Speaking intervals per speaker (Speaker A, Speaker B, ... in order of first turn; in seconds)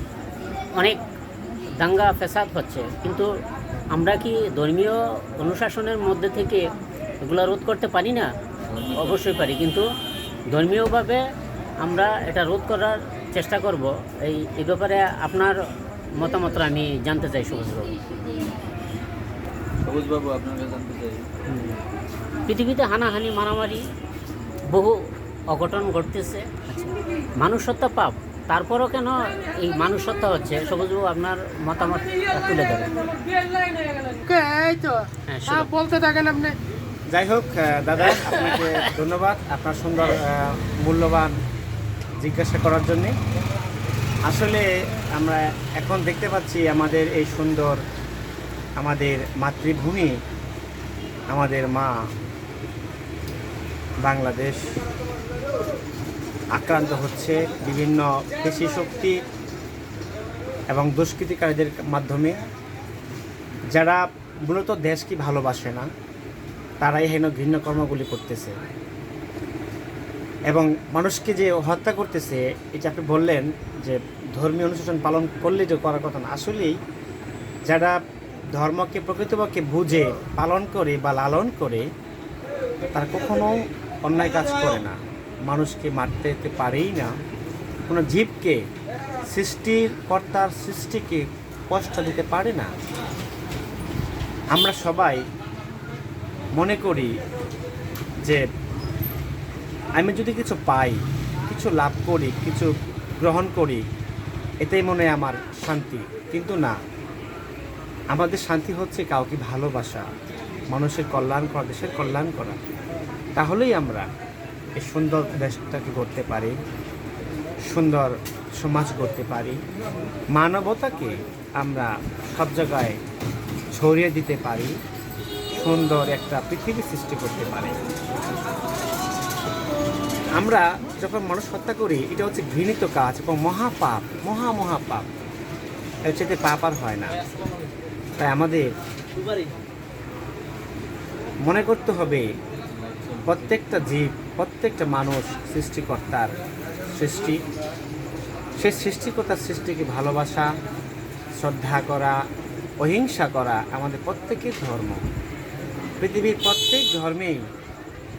Speaker A: 1.8-3.3, 3.9-6.6, 7.2-8.3, 8.8-9.9, 10.5-11.2, 11.8-15.6, 16.2-18.0, 21.5-21.8, 22.5-23.8, 24.7-25.0, 25.5-32.9, 35.3-35.7, 38.0-38.6
Speaker B: 8.7-9.0, 19.8-21.3, 142.9-143.2
Speaker C: 34.1-36.5
Speaker D: 37.1-41.3, 42.2-43.1, 44.3-47.8, 48.8-50.1, 51.3-51.9, 54.0-54.7, 56.5-59.2, 60.7-62.4, 63.7-65.9, 66.8-68.5, 70.5-76.8, 77.7-78.0, 78.5-81.9, 82.9-87.2, 87.9-88.6, 89.2-92.7, 94.5-95.2, 96.6-97.1, 100.0-102.7, 103.2-103.8, 104.6-106.8, 108.1-110.1, 110.7-112.6, 113.4-114.1, 114.8-116.5, 117.7-119.6, 120.4-123.0, 123.8-124.7, 125.5-127.8, 130.4-135.1, 136.1-137.2, 138.2-138.7, 141.4-142.3, 143.2-146.4, 146.9-147.4, 148.6-150.5, 151.4-152.2, 152.8-155.0, 156.0-157.4